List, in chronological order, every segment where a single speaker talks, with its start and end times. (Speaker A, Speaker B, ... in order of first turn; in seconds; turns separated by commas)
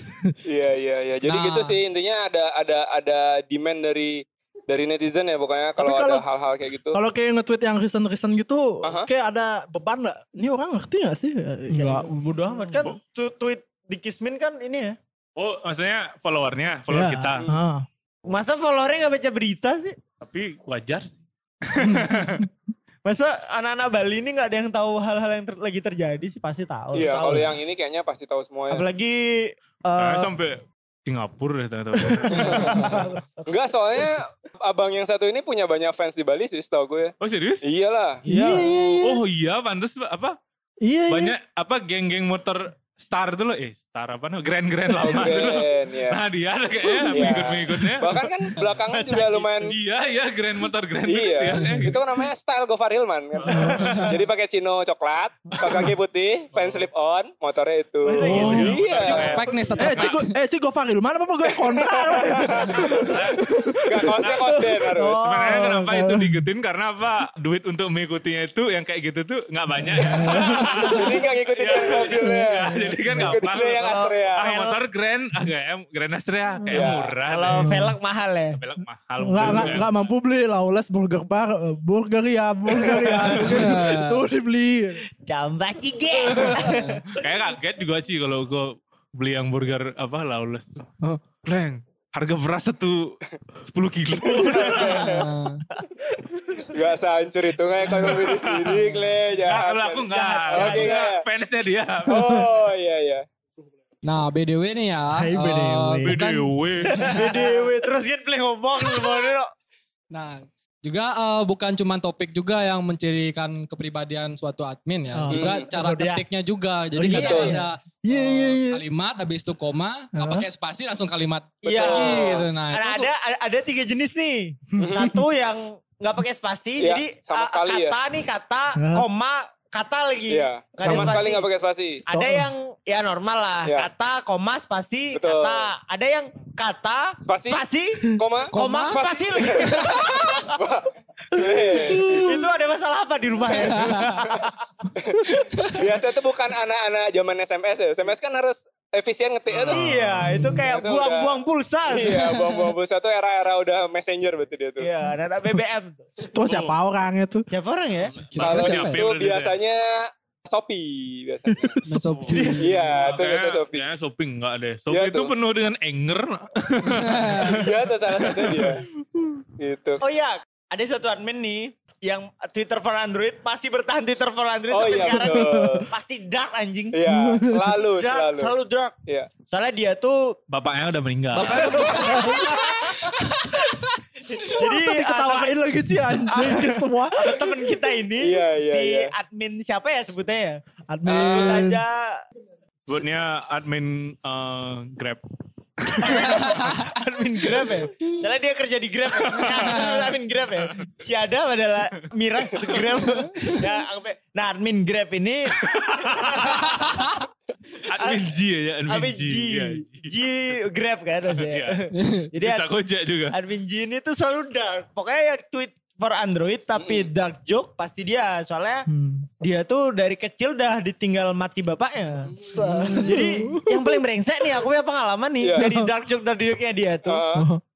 Speaker A: 0.4-7.0, Speaker B: 1.2-1.8, Speaker C: 5.8-6.2, Speaker C: 6.9-12.1, Speaker D: 11.7-14.9, Speaker E: 15.3-17.4, Speaker C: 16.9-17.8, Speaker D: 18.3-19.9, Speaker E: 20.2-22.5, Speaker C: 21.8-22.5, Speaker D: 23.1-27.5, Speaker A: 26.9-28.9, Speaker D: 28.7-30.3, Speaker E: 30.0-33.0, Speaker A: 32.4-38.2, Speaker E: 37.2-37.6, Speaker D: 38.2-38.7, Speaker C: 38.3-39.2, Speaker E: 38.7-40.4, Speaker C: 40.8-41.3, Speaker E: 41.1-48.3, Speaker A: 45.0-46.2, Speaker A: 47.1-49.7, Speaker D: 49.0-49.5, Speaker E: 49.6-52.0, Speaker A: 51.0-59.5, Speaker E: 53.4-54.1, Speaker C: 53.5-54.1, Speaker D: 58.0-59.3, Speaker E: 58.2-60.1, Speaker C: 58.2-58.8, Speaker B: 59.1-60.3, Speaker C: 59.8-66.5, Speaker A: 61.5-63.1, Speaker E: 62.9-63.4, Speaker A: 63.9-65.2, Speaker E: 64.2-64.5, Speaker E: 65.1-77.7, Speaker C: 69.9-71.0, Speaker A: 70.5-74.7, Speaker C: 72.2-73.3, Speaker D: 73.8-74.7, Speaker A: 76.7-77.1, Speaker D: 77.3-78.6, Speaker C: 77.5-77.9, Speaker E: 78.5-79.9, Speaker C: 79.2-85.0, Speaker D: 82.8-83.4, Speaker B: 83.4-84.2, Speaker D: 85.2-87.0, Speaker B: 86.6-87.0, Speaker E: 87.2-90.9, Speaker E: 91.4-95.1, Speaker A: 94.2-95.3, Speaker B: 95.0-95.6, Speaker A: 96.6-101.2, Speaker E: 97.9-102.4, Speaker D: 100.1-101.0, Speaker A: 102.1-103.2, Speaker B: 104.0-107.5, Speaker C: 105.1-106.5, Speaker E: 106.0-107.0, Speaker D: 107.0-109.5, Speaker B: 110.1-123.1, Speaker C: 115.1-115.5, Speaker A: 115.3-115.7, Speaker D: 115.7-116.2, Speaker C: 116.9-118.8, Speaker A: 117.1-117.5, Speaker D: 117.1-117.5, Speaker C: 120.1-120.5, Speaker D: 121.6-131.4, Speaker A: 121.7-122.5, Speaker C: 124.7-125.1, Speaker A: 124.8-125.2, Speaker A: 126.8-128.0, Speaker C: 128.8-129.1, Speaker A: 130.3-132.0, Speaker C: 130.8-131.2, Speaker D: 132.1-140.6, Speaker C: 132.1-132.5, Speaker A: 135.1-135.7, Speaker A: 137.2-142.2, Speaker B: 138.5-139.0, Speaker B: 139.6-140.1, Speaker C: 141.5-142.4, Speaker D: 141.9-144.6, Speaker A: 145.0-149.9, Speaker E: 149.5-149.9, Speaker D: 149.7-152.3, Speaker C: 150.2-150.6, Speaker A: 150.7-151.3, Speaker A: 151.9-154.9, Speaker D: 154.8-156.0, Speaker C: 156.2-157.5, Speaker E: 156.4-156.8, Speaker D: 157.5-158.1, Speaker E: 158.2-159.6, Speaker B: 158.3-159.1, Speaker A: 158.4-161.8, Speaker C: 161.5-162.6, Speaker B: 161.8-162.7, Speaker E: 162.0-167.5, Speaker A: 162.6-163.8, Speaker A: 164.9-165.3, Speaker B: 167.1-167.6, Speaker A: 167.4-168.8, Speaker A: 169.6-170.0, Speaker D: 170.0-177.0, Speaker A: 174.7-175.8, Speaker C: 175.2-175.8, Speaker A: 176.9-178.5, Speaker C: 177.1-177.8, Speaker D: 178.0-178.9, Speaker D: 179.5-180.3, Speaker E: 180.5-181.8, Speaker D: 181.3-183.1, Speaker A: 181.6-182.3, Speaker D: 184.3-185.6, Speaker C: 184.6-187.3, Speaker D: 186.3-192.2, Speaker A: 188.2-189.1, Speaker C: 190.9-191.8, Speaker A: 191.1-191.6, Speaker E: 192.9-195.2, Speaker E: 195.8-196.8, Speaker D: 196.0-207.0, Speaker E: 199.2-199.9, Speaker E: 205.6-206.9, Speaker E: 207.8-210.1, Speaker D: 208.0-208.2, Speaker D: 208.9-212.7, Speaker E: 211.3-211.8, Speaker B: 211.9-212.3, Speaker E: 212.4-213.3, Speaker D: 213.3-218.8, Speaker A: 216.8-217.1, Speaker C: 218.9-219.3, Speaker D: 219.4-227.2, Speaker C: 222.6-224.0, Speaker C: 225.6-225.9, Speaker A: 227.1-227.5, Speaker C: 227.3-227.6